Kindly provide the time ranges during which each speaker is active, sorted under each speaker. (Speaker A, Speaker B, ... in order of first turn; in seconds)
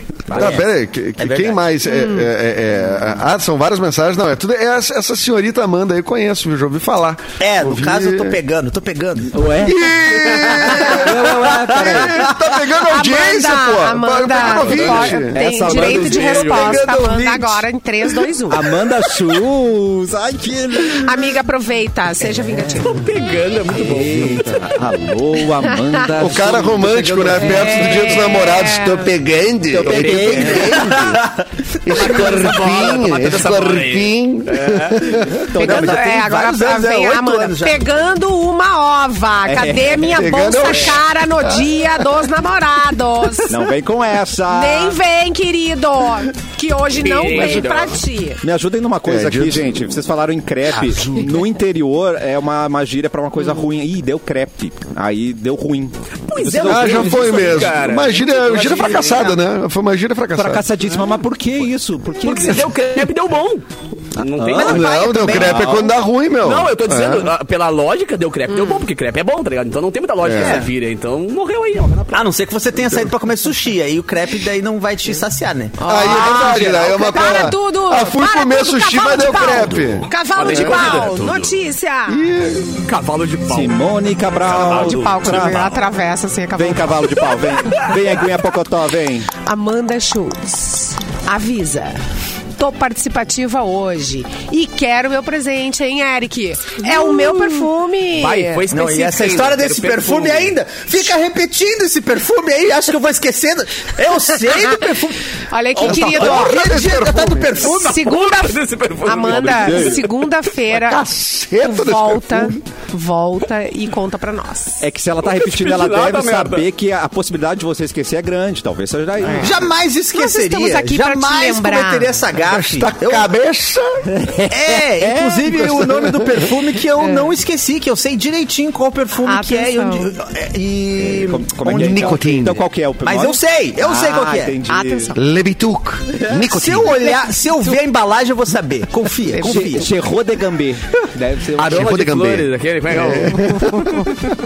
Speaker A: 0.3-0.6, 14.4-15.1, 15.6-16.9, 22.8-24.7, 29.9-30.8, 31.9-35.0, 47.0-48.0, 56.3-59.3, 62.2-64.9, 66.4-72.3, 80.3-81.5, 82.8-83.8, 84.4-85.0, 98.1-100.5, 107.8-110.0, 115.2-116.7, 141.6-143.6
Speaker B: 0.3-8.4, 9.6-15.4, 26.2-31.2, 31.8-35.5, 40.1-41.9, 49.0-49.9, 56.6-60.6, 64.6-67.3, 70.2-70.7, 75.8-81.0, 82.1-82.7, 105.8-107.6, 110.7-112.5, 122.4-123.9, 125.7-126.4, 131.7-132.6, 135.2-137.0, 141.7-144.1
Speaker C: 0.3-0.6, 1.2-1.6, 7.4-9.4, 10.7-12.2, 16.1-17.6, 30.5-31.4, 35.5-37.8, 50.7-51.3, 56.5-57.5, 58.4-59.3, 64.5-65.8, 70.3-70.7, 72.1-75.8, 98.7-108.1, 119.4-123.3, 124.5-134.6, 136.4-139.9
Speaker D: 1.9-2.3, 12.8-18.7, 20.9-23.1, 27.4-29.1, 35.5-43.6, 44.5-48.4, 68.5-68.8, 75.8-82.2, 84.8-87.2, 89.4-92.0, 92.6-98.6, 105.5-111.0, 111.6-114.8, 119.2-119.5, 120.1-122.1, 127.0-127.3, 129.2-130.1, 134.7-135.2
Speaker E: 9.3-12.3, 14.7-16.8, 18.5-21.1, 22.5-22.8, 23.7-28.1, 29.7-30.9, 35.5-36.1, 39.5-40.2, 43.5-45.0, 48.4-57.7, 60.3-62.7, 64.4-64.8, 65.3-65.9, 83.5-85.8, 86.5-89.3, 109.2-110.0, 114.8-119.7, 124.1-125.9, 131.0-135.2, 136.1-136.4, 139.4-142.0